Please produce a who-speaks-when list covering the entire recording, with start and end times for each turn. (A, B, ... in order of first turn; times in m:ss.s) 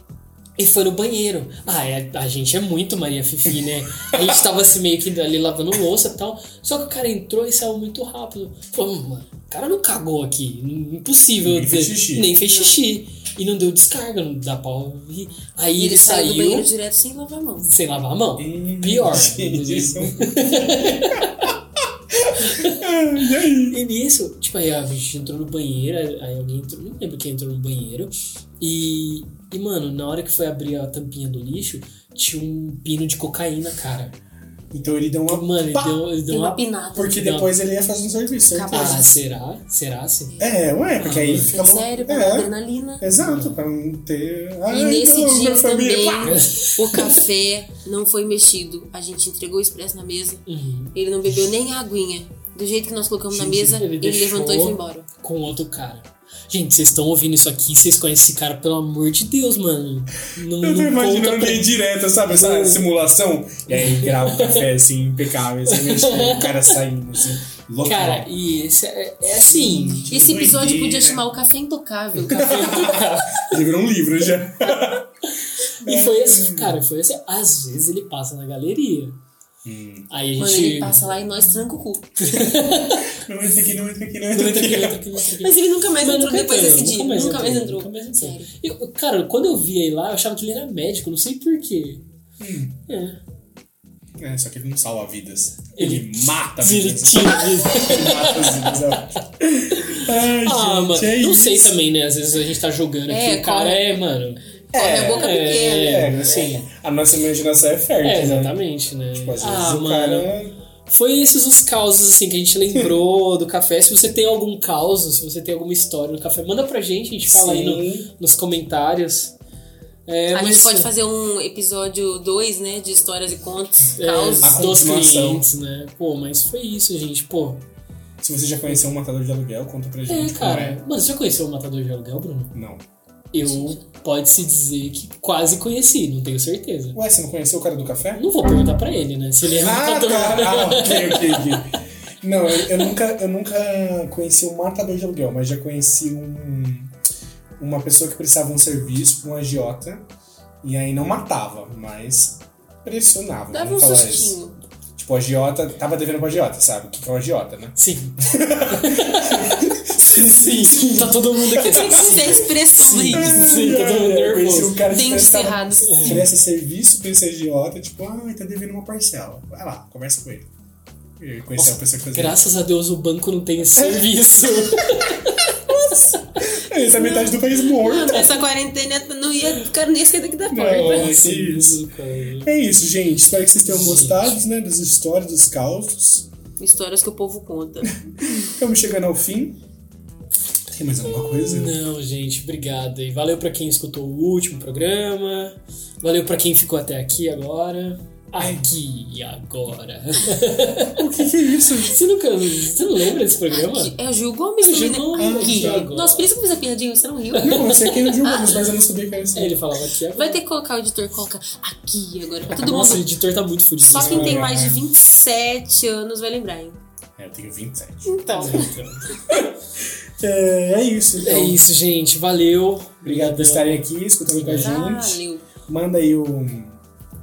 0:00.6-0:16.7 A
0:11.4-0:12.3 B
0:12.4-0:12.8 C
0:15.8-0:17.7 C
0:17.6-0:21.5 A
0:18.4-0:21.2 B
0:22.1-0:23.8 B
0:22.4-0:22.8 A
0:23.7-0:34.2 A
0:34.7-0:36.0 B
0:35.3-0:37.5 A
0:36.3-0:37.2 C
0:37.0-0:39.0 B
0:38.5-0:39.2 C
0:38.7-0:40.4 A
0:40.3-0:40.8 C
0:40.4-0:46.4 B
0:41.0-0:41.6 A
0:41.4-0:43.0 C
0:43.1-0:43.6 A
0:44.7-0:50.4 C
0:46.3-0:47.2 A
0:50.5-0:51.0 A
0:50.9-0:55.1 C
0:53.3-0:53.7 B
0:53.6-1:01.7 A
1:00.6-1:08.3 B
1:02.3-1:02.8 A
1:03.7-1:04.7 A
1:05.7-1:06.8 A
1:07.8-1:10.1 A
1:09.5-1:11.3 B
1:10.1-1:13.0 C
1:12.2-1:13.6 A
1:12.3-1:15.1 B
1:15.8-1:16.8 B
1:15.8-1:19.2 A
1:19.6-1:20.1 B
1:20.1-1:21.0 A
1:20.4-1:22.6 C
1:22.2-1:23.2 A
1:23.1-1:25.1 B
1:24.3-1:32.0 A
1:25.4-1:28.5 C
1:32.4-1:32.8 B
1:32.9-1:33.2 A
1:34.2-1:41.8 B
1:35.8-1:39.1 A
1:39.7-1:44.4 A
1:43.1-1:43.8 C
1:44.7-1:46.3 C
1:44.7-1:48.6 B
1:45.1-1:46.7 A
1:48.0-1:59.4 A
1:49.2-1:50.6 B
1:57.2-1:58.1 B
2:00.1-2:00.9 A
2:00.3-2:04.6 C
2:04.0-2:07.6 A
2:04.4-2:05.5 B
2:08.2-2:10.8 B
2:10.1-2:12.5 A
2:12.5-2:12.8 B
2:13.3-2:17.0 A
2:13.4-2:13.8 C
2:16.9-2:18.3 B
2:18.2-2:21.6 A
2:19.5-2:26.9 B
2:27.6-2:30.1 B
2:30.6-2:34.4 B
2:33.5-2:34.6 C
2:35.0-2:42.4 B
2:37.8-2:44.8 A
2:41.7-2:43.6 C
2:43.1-2:50.5 B
2:44.8-2:46.2 C
2:45.9-2:46.2 A
2:51.2-2:52.4 B
2:51.6-2:56.2 A
2:53.8-2:54.7 B
2:55.9-2:58.3 B
2:56.7-3:01.1 C
2:58.1-2:58.4 A
3:00.5-3:01.8 B
3:00.7-3:02.5 A
3:02.4-3:06.3 B
3:03.6-3:04.4 A
3:06.6-3:07.9 C
3:08.1-3:09.6 B
3:10.7-3:11.8 B
3:11.4-3:21.2 A
3:18.4-3:18.7 B
3:21.0-3:22.0 B
3:21.8-3:23.9 A
3:23.5-3:28.7 C
3:24.6-3:26.3 A
3:25.2-3:25.9 B
3:27.3-3:28.0 A
3:27.4-3:29.6 B
3:29.3-3:30.4 A
3:30.2-3:33.0 C
3:32.5-3:34.5 A
3:33.9-3:36.8 C
3:33.9-3:34.8 B
3:37.2-3:38.7 B
3:38.1-3:38.7 C
3:38.3-3:39.2 A
3:39.3-3:41.6 B
3:41.2-3:44.9 A
3:43.0-3:46.8 B
3:44.6-3:45.4 C